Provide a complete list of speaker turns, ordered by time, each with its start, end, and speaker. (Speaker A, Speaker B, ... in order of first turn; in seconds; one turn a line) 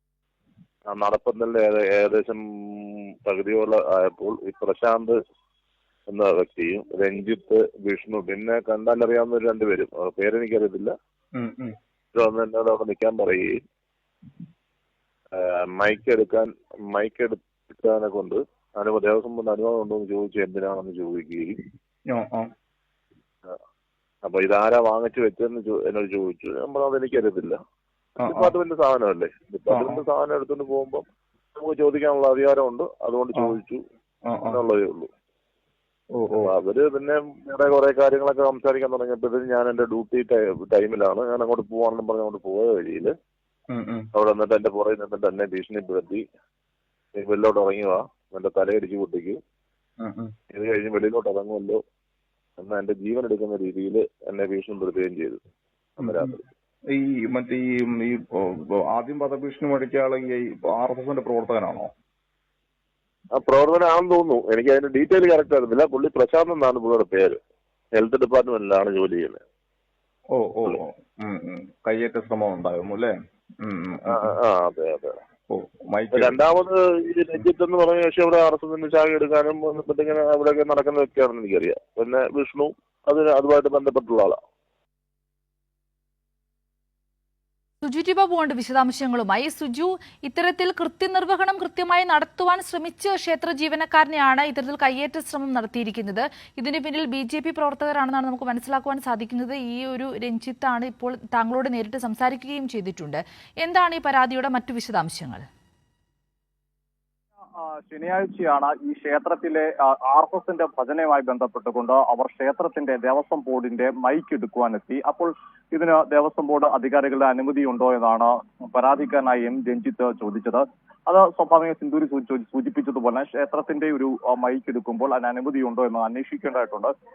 Speaker A: 0.9-5.2
Speaker A: 6.1-10.9
Speaker B: 11.3-11.7
Speaker A: 12.1-13.5
Speaker A: 15.3-21.6
Speaker B: 22.1-22.5
Speaker A: 24.2-27.6
Speaker B: 28.2-28.5
Speaker A: 28.2-31.0
Speaker B: 29.7-30.0
Speaker A: 31.6-33.8
Speaker B: 34.2-34.6
Speaker A: 34.5-35.1
Speaker B: 36.1-36.5
Speaker A: 36.4-43.1
Speaker B: 43.7-44.1
Speaker A: 44.1-46.2
Speaker A: 47.2-49.4
Speaker B: 50.0-50.3
Speaker A: 50.5-51.8
Speaker A: 52.6-55.4
Speaker A: 56.0-56.4
Speaker B: 56.0-56.4
Speaker B: 56.9-61.9
Speaker A: 63.4-67.4
Speaker A: 67.9-69.4
Speaker B: 70.3-74.3
Speaker A: 74.1-75.2
Speaker B: 75.5-76.4
Speaker A: 76.1-84.4
Speaker C: 87.8-105.4
Speaker D: 107.6-126.9